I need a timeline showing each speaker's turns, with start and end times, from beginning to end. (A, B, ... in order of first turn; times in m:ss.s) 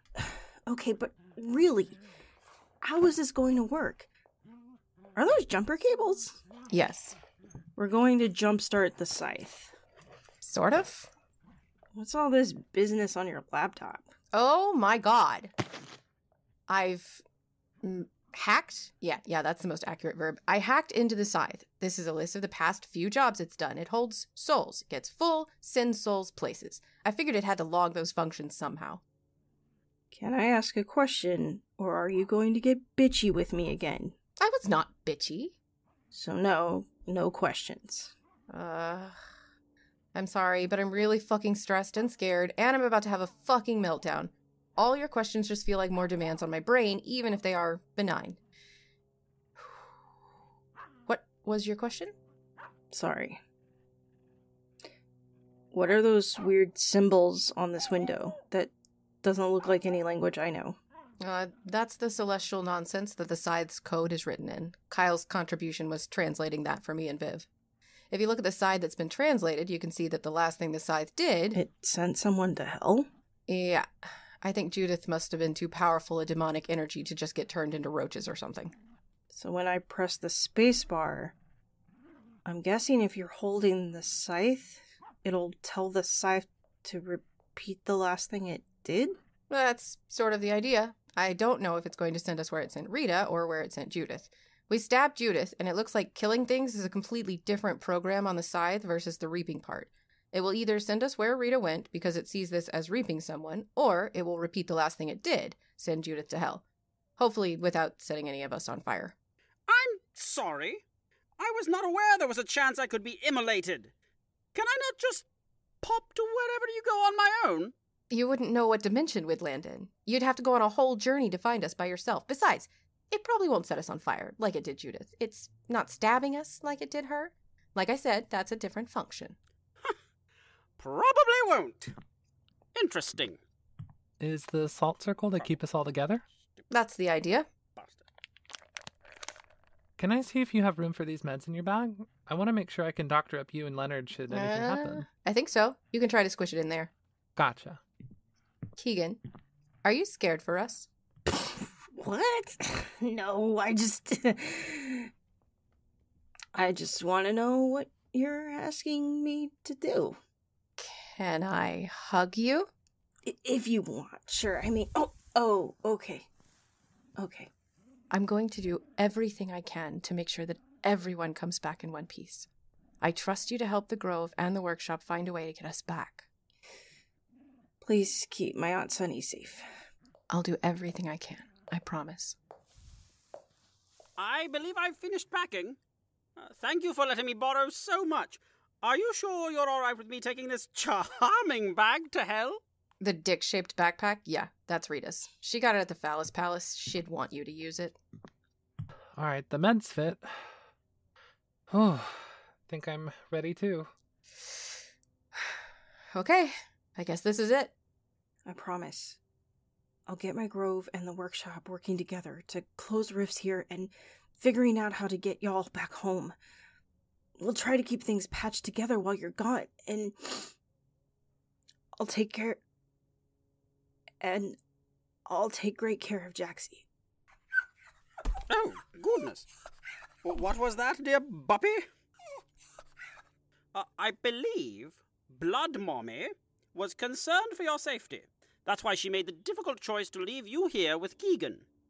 0:00.2-0:02.0 A
0:02.8-0:04.1 A
0:05.2-0:06.4 A
0:06.7-0:07.2 B
0:07.8-0:09.7 A
0:10.4-0:11.1 B
0:11.9-0:14.1 A
0:14.3-0:15.5 B
0:16.7-0:17.2 B
0:17.8-0:29.0 B
0:30.1-0:34.1 A
0:34.4-0:35.6 B
0:36.1-0:38.1 A
0:38.5-0:39.2 B
0:40.1-0:48.4 B
0:51.1-0:52.1 B
0:52.9-0:53.4 A
0:55.7-0:58.7 A
0:59.2-1:00.8 A
1:01.2-1:07.5 B
1:08.1-1:11.6 B
1:11.5-1:13.1 A
1:13.5-1:13.9 B
1:14.4-1:18.7 B
1:19.3-1:21.3 A
1:22.4-1:29.2 A
1:29.5-1:46.6 B
1:47.2-1:49.2 B
1:49.7-1:50.8 C
1:51.4-1:53.9 C
1:54.5-1:55.2 C
1:55.8-1:57.7 C
1:58.1-2:09.4 B
2:10.8-2:11.9 C
2:12.7-2:13.4 C
2:14.2-2:16.2 D
2:16.7-2:17.5 B
2:17.8-2:18.0 C
2:20.0-2:25.1 D
2:24.3-2:26.9 B
2:27.4-2:27.8 D
2:28.8-2:29.2 B
2:29.8-2:30.9 B
2:31.3-2:35.1 A
2:36.5-2:40.2 A
2:40.8-2:42.7 B
2:43.2-2:46.3 A
2:47.2-2:47.5 A
2:48.1-2:52.5 B
2:53.0-2:56.3 B
2:57.8-2:59.6 A
3:00.3-3:02.4 B
3:04.2-3:05.8 C
3:06.4-3:12.6 C
3:13.0-3:18.0 B
3:19.1-3:20.5 D
3:21.7-3:23.9 D
3:26.1-3:27.7 B
3:28.4-3:29.2 A
3:30.1-3:36.4 A
3:37.4-3:40.5 A
3:42.0-3:42.6 A
3:44.2-3:44.6 A
3:45.3-3:46.8 A
3:48.5-3:49.5 C
3:50.2-3:51.8 C
3:53.7-4:01.6 C